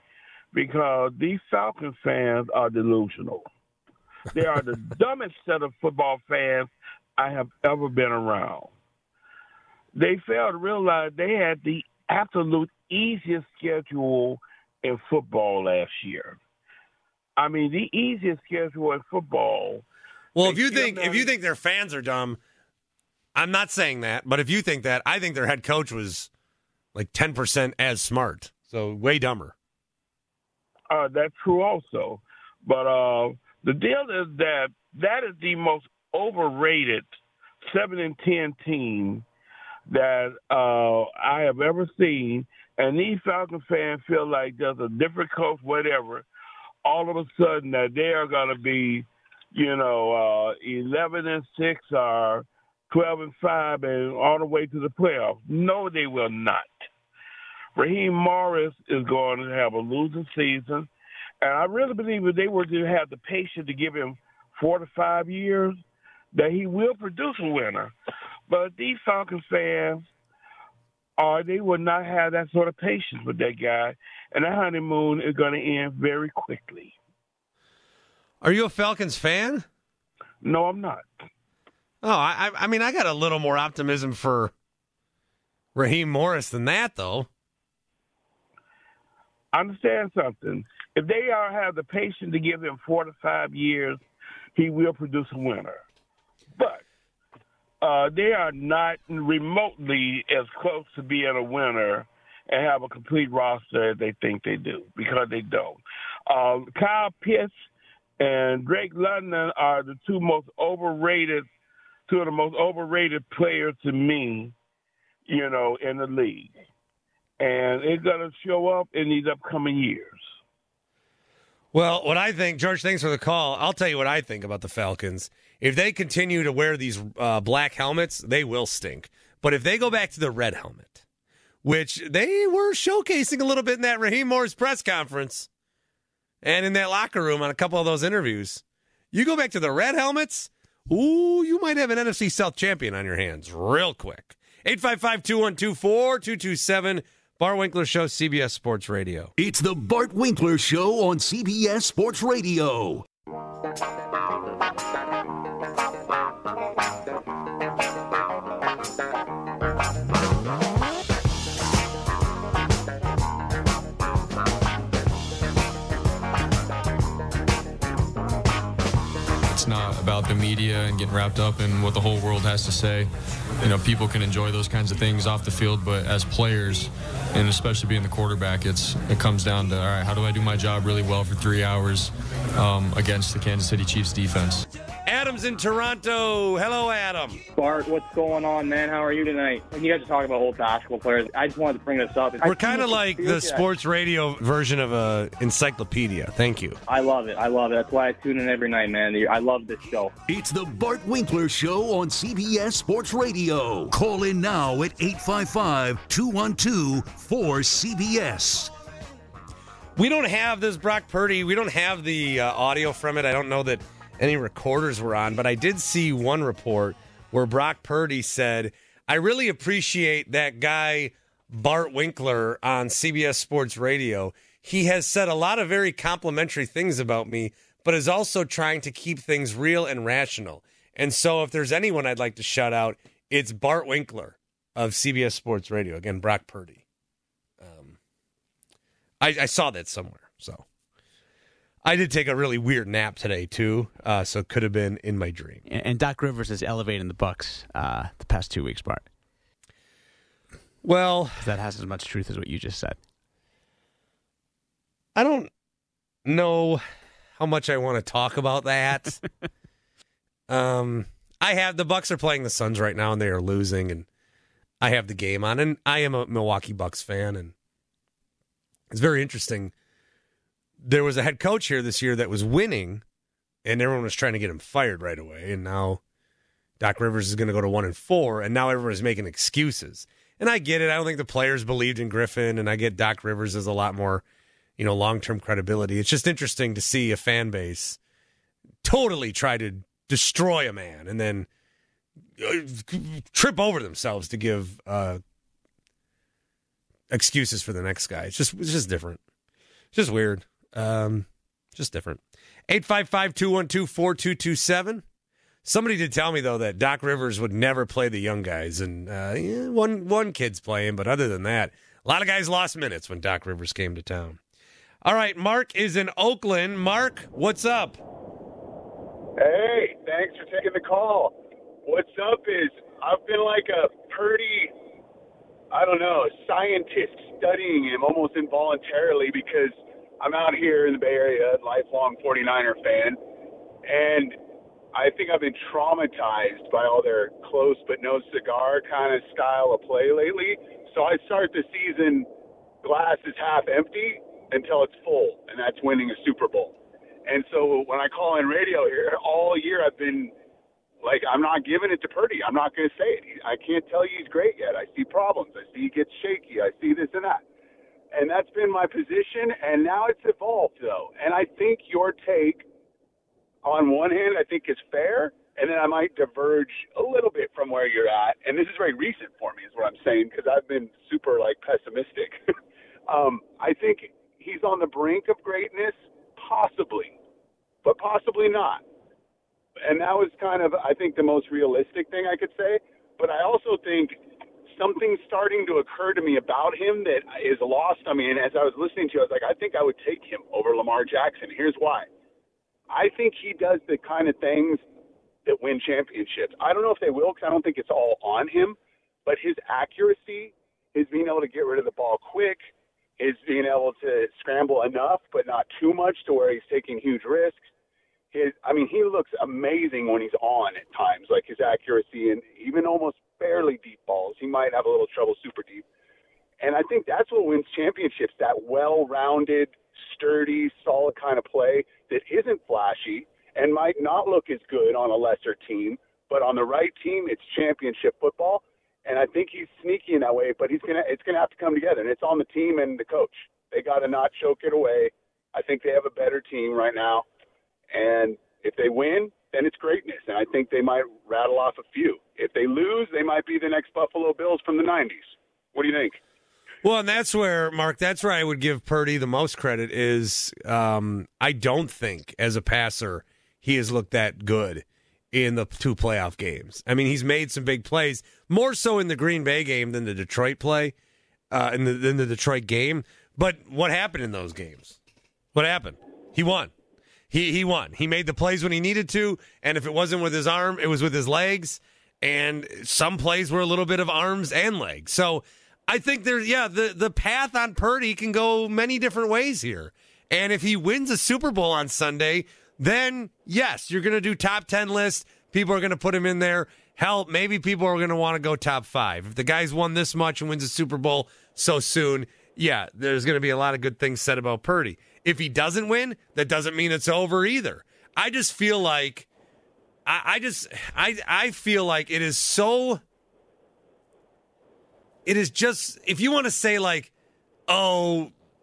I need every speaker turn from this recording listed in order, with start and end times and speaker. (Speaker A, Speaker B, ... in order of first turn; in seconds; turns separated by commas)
Speaker A: 0.5-3.5, Speaker A: 4.3-8.7, Speaker A: 9.9-16.4, Speaker A: 17.4-19.9, Speaker B: 20.4-22.4, Speaker A: 20.4-21.3, Speaker B: 23.4-26.3, Speaker B: 26.9-29.6, Speaker A: 30.9-37.1, Speaker A: 37.6-39.2, Speaker A: 39.9-46.3, Speaker A: 46.9-56.7, Speaker A: 57.8-60.9, Speaker A: 61.4-65.8, Speaker A: 66.3-67.9, Speaker A: 68.5-70.0, Speaker A: 71.2-77.0, Speaker B: 78.4-79.7, Speaker A: 80.4-81.1, Speaker B: 82.0-84.5, Speaker B: 85.8-87.3, Speaker A: 89.5-94.0, Speaker A: 94.5-95.8, Speaker A: 96.6-96.8, Speaker A: 97.8-107.5, Speaker A: 108.2-111.5, Speaker A: 112.1-114.5, Speaker A: 115.3-116.5, Speaker A: 117.4-120.3, Speaker B: 121.7-131.0, Speaker B: 131.6-135.5, Speaker B: 136.4-149.3, Speaker C: 149.4-153.1, Speaker D: 169.5-173.1, Speaker D: 173.6-184.7, Speaker B: 185.1-187.4, Speaker E: 187.6-193.7, Speaker B: 192.4-196.8, Speaker E: 196.9-200.1, Speaker C: 200.3-208.7, Speaker B: 210.0-236.8, Speaker B: 237.6-238.0, Speaker B: 239.2-240.6, Speaker B: 241.8-245.6, Speaker F: 245.7-249.1, Speaker B: 250.8-251.6, Speaker F: 251.4-253.0, Speaker B: 255.2-255.5, Speaker B: 256.2-256.8, Speaker B: 257.4-259.2, Speaker B: 260.5-264.1, Speaker B: 264.8-267.5, Speaker B: 268.9-269.7, Speaker B: 270.8-273.0, Speaker B: 273.6-276.0, Speaker B: 276.8-284.2, Speaker B: 284.8-288.0, Speaker B: 288.8-291.5, Speaker B: 292.4-295.2, Speaker B: 297.1-299.2, Speaker B: 299.9-305.0, Speaker B: 305.6-314.4, Speaker B: 315.1-318.0, Speaker G: 319.4-321.4, Speaker G: 321.9-324.7, Speaker G: 325.7-333.2, Speaker G: 333.9-334.4, Speaker G: 334.9-342.3, Speaker G: 342.8-346.8, Speaker G: 347.3-350.3, Speaker G: 351.0-357.4, Speaker G: 358.1-362.6, Speaker G: 363.6-372.4, Speaker G: 373.1-377.2, Speaker G: 377.8-378.8, Speaker G: 379.9-384.1, Speaker G: 384.7-392.1, Speaker G: 392.9-394.8, Speaker G: 395.5-407.6, Speaker G: 408.3-415.8, Speaker G: 416.6-437.2, Speaker G: 437.9-446.2, Speaker B: 446.8-460.9, Speaker B: 461.5-465.0, Speaker B: 465.5-466.7, Speaker B: 467.3-499.3, Speaker B: 500.1-503.0, Speaker B: 505.3-507.1, Speaker B: 507.7-508.3